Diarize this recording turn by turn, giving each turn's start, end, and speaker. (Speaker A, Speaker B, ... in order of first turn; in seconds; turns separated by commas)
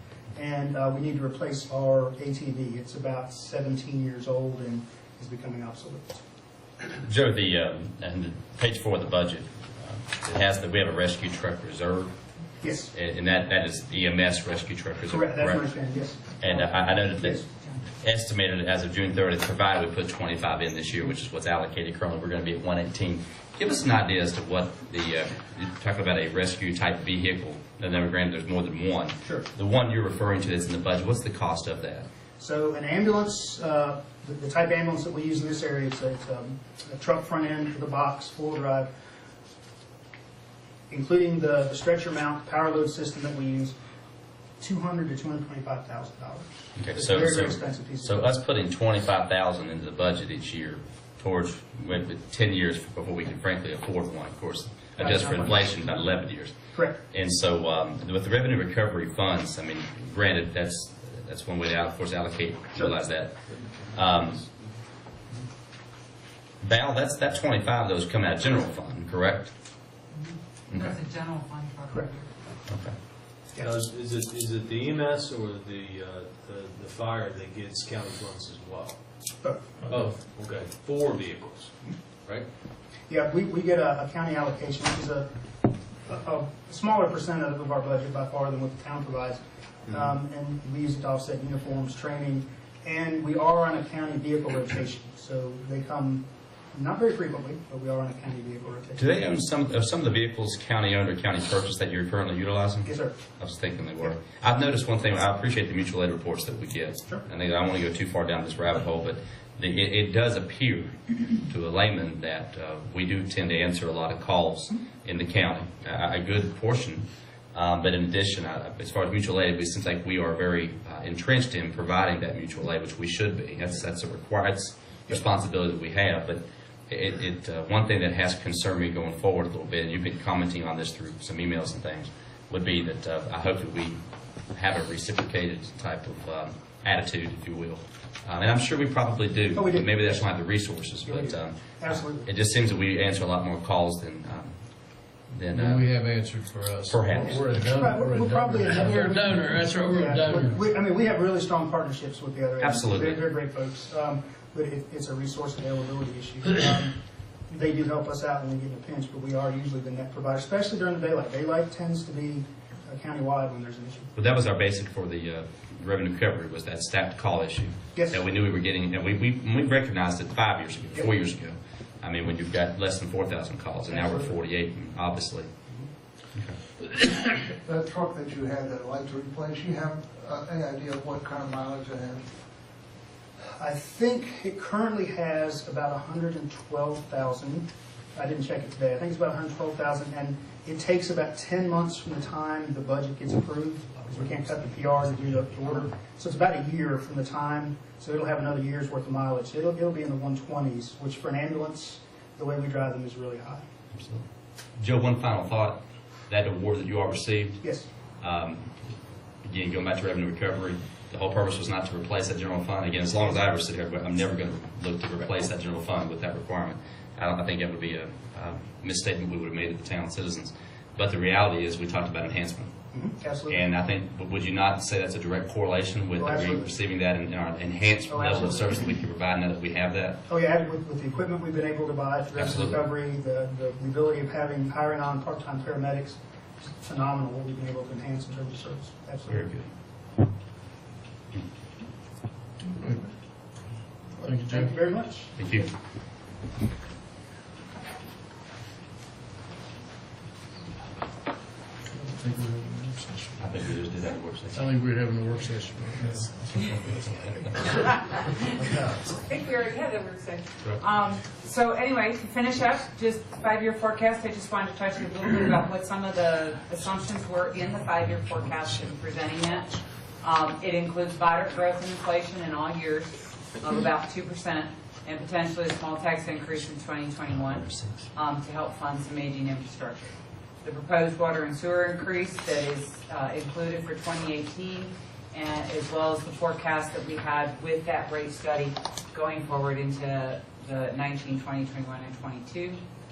Speaker A: 0.3-6.2, Speaker B: 7.0-12.1, Speaker A: 12.6-12.9, Speaker B: 12.8-15.7, Speaker A: 15.1-17.5, Speaker B: 16.4-32.1, Speaker A: 32.4-38.9, Speaker A: 40.9-43.7, Speaker A: 44.6-48.4, Speaker B: 46.8-63.3, Speaker A: 55.0-55.7, Speaker A: 56.7-57.0, Speaker C: 63.7-64.6, Speaker B: 63.9-64.4, Speaker B: 66.6-69.5, Speaker D: 70.1-72.3, Speaker B: 72.7-73.0, Speaker A: 73.5-73.8, Speaker C: 73.6-79.0, Speaker C: 79.9-82.5, Speaker A: 83.1-85.3, Speaker A: 86.0-99.1, Speaker B: 99.0-134.0, Speaker A: 102.8-103.2, Speaker B: 134.5-144.6, Speaker A: 139.5-140.2, Speaker A: 141.0-142.2, Speaker B: 145.3-145.9, Speaker E: 145.5-150.5, Speaker B: 146.9-147.6, Speaker A: 147.1-157.0, Speaker B: 152.6-153.2, Speaker A: 157.5-164.1, Speaker B: 164.1-175.5, Speaker A: 167.9-168.2, Speaker A: 173.9-174.3, Speaker F: 177.4-182.3, Speaker A: 183.6-203.6, Speaker B: 203.9-204.2, Speaker B: 204.8-207.6, Speaker A: 207.6-207.9, Speaker B: 208.2-208.9, Speaker B: 209.4-222.7, Speaker A: 222.9-223.6, Speaker B: 223.5-230.2, Speaker A: 226.2-226.7, Speaker A: 228.1-228.8, Speaker A: 230.3-239.5, Speaker B: 232.3-232.8, Speaker B: 239.3-239.7, Speaker E: 242.7-243.0, Speaker E: 244.2-244.7, Speaker A: 244.3-245.7, Speaker B: 245.4-245.7, Speaker E: 251.9-253.6, Speaker B: 253.4-254.6, Speaker E: 254.5-257.0, Speaker B: 256.8-257.7, Speaker D: 257.6-292.8, Speaker B: 277.3-278.1